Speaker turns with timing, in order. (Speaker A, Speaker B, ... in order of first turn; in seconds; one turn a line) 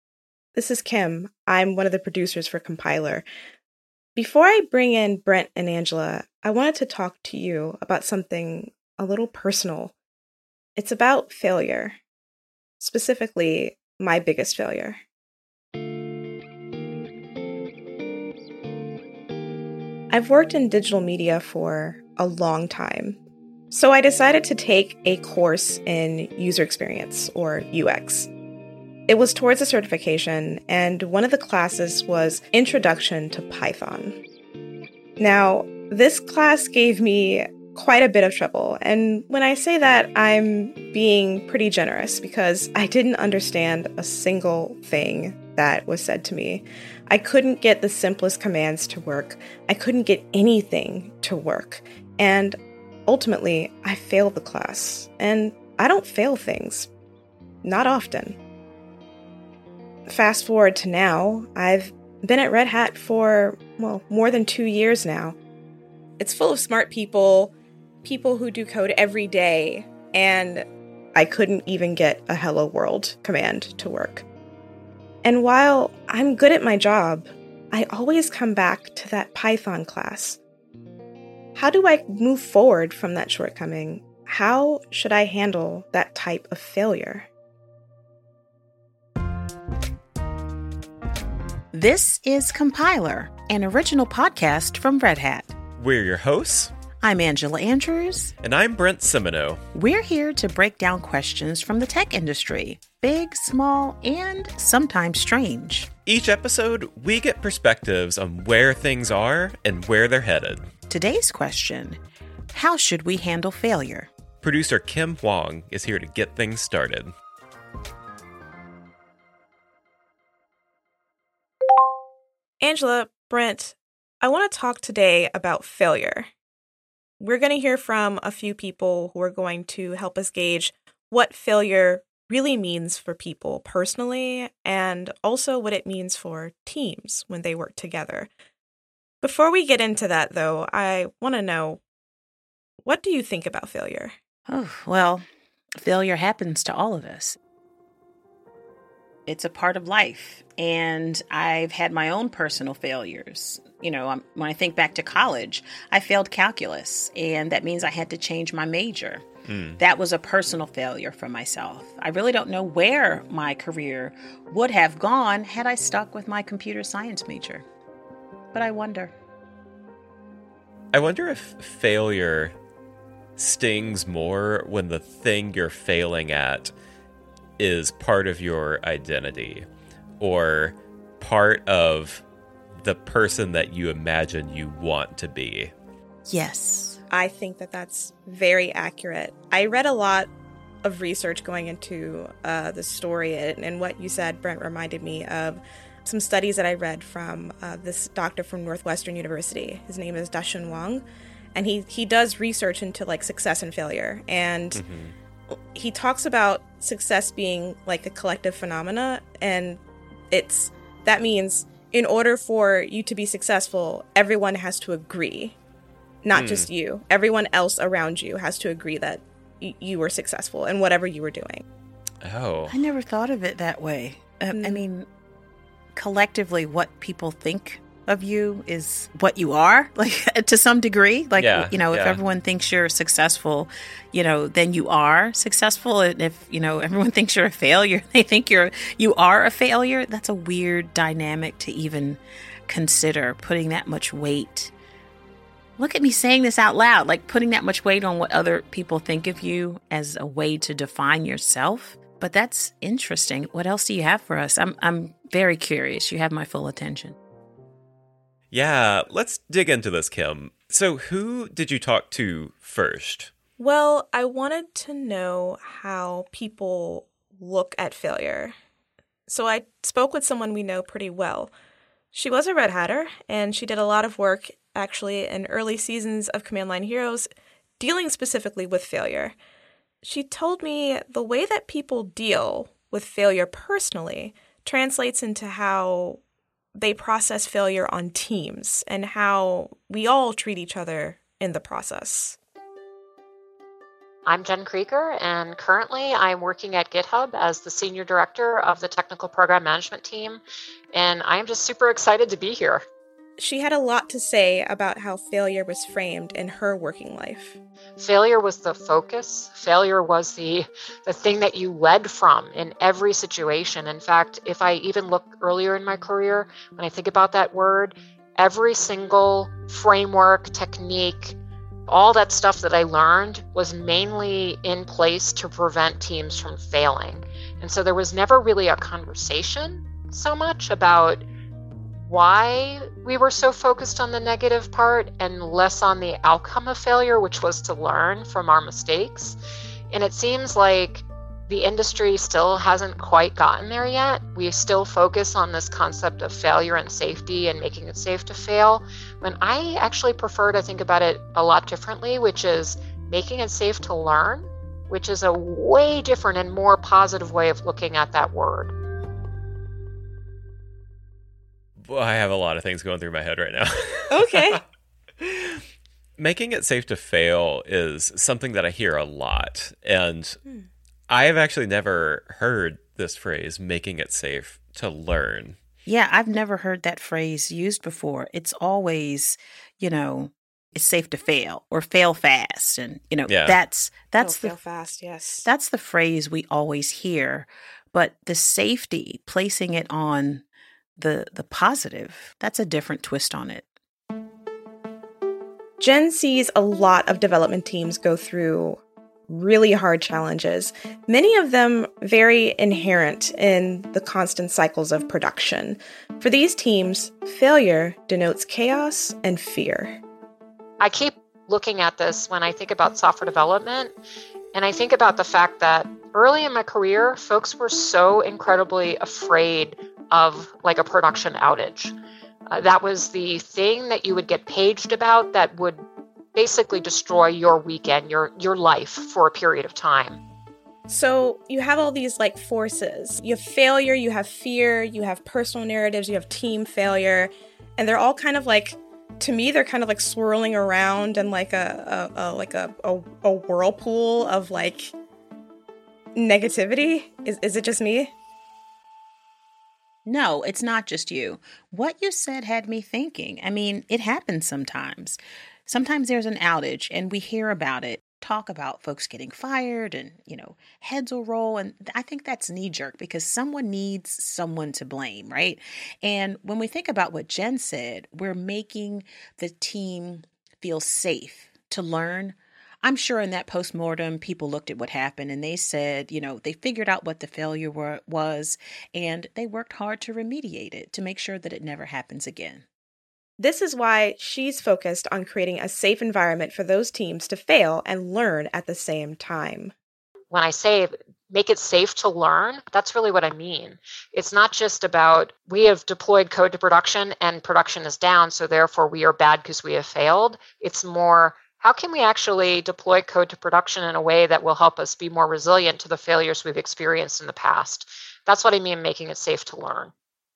Speaker A: 0.5-3.2
Speaker A: 4.2-9.9
Speaker A: 10.8-12.0
Speaker A: 12.8-15.0
Speaker A: 20.1-23.2
Speaker A: 23.7-28.3
Speaker A: 29.1-34.2
Speaker A: 35.2-56.9
Speaker A: 57.6-58.4
Speaker A: 60.1-65.4
Speaker A: 66.2-74.2
Speaker A: 75.2-80.4
Speaker A: 81.5-87.3
Speaker B: 91.7-95.5
Speaker C: 95.8-96.7
Speaker B: 97.0-98.3
Speaker C: 98.4-99.6
Speaker B: 99.7-105.9
Speaker C: 106.0-110.7
Speaker B: 110.9-112.0
Speaker B: 112.5-114.1
Speaker C: 114.4-117.1
Speaker A: 122.6-126.3
Speaker A: 127.2-138.3
Speaker A: 139.2-141.8
Speaker A: 142.8-144.2
Speaker B: 144.5-145.2
Speaker B: 145.8-147.4
Speaker B: 149.2-159.3
Speaker C: 159.4-159.8
Speaker B: 159.8-167.7
Speaker B: 168.5-169.1
Speaker C: 170.9-172.5
Speaker C: 173.4-176.7
Speaker C: 177.6-179.7
Speaker C: 180.2-182.2
Speaker C: 182.8-185.7
Speaker B: 186.2-187.0
Speaker A: 187.1-190.3
Speaker A: 190.8-204.8
Speaker C: 204.7-205.1
Speaker A: 205.7-215.6
Speaker A: 216.2-221.6
Speaker C: 216.3-216.7
Speaker C: 222.2-222.7
Speaker B: 222.7-225.1
Speaker A: 224.5-224.8
Speaker B: 225.9-244.7
Speaker C: 231.4-232.2
Speaker B: 245.8-257.2
Speaker C: 258.5-263.3
Speaker A: 263.6-268.6
Speaker A: 269.3-271.5
Speaker A: 272.1-277.3
Speaker A: 277.8-279.4
Speaker A: 280.0-286.2
Speaker A: 286.8-292.4
Speaker D: 294.2-300.4
Speaker D: 300.9-302.8
Speaker A: 303.4-307.6
Speaker D: 308.0-321.4
Speaker D: 321.9-331.2
Speaker D: 331.9-339.4
Speaker D: 339.9-358.7
Speaker C: 361.8-364.6
Speaker A: 364.1-364.6
Speaker C: 365.2-365.6
Speaker C: 366.2-370.4
Speaker C: 371.1-375.6
Speaker B: 375.9-384.6
Speaker C: 383.3-383.6
Speaker A: 384.2-385.5
Speaker B: 385.4-390.4
Speaker B: 391.0-393.7
Speaker A: 395.8-410.0
Speaker D: 410.8-413.9
Speaker D: 414.5-421.9
Speaker D: 422.5-425.8
Speaker D: 426.3-430.2
Speaker A: 430.9-444.9
Speaker A: 446.1-448.1
Speaker B: 450.0-482.6
Speaker A: 483.4-489.7
Speaker D: 490.3-509.9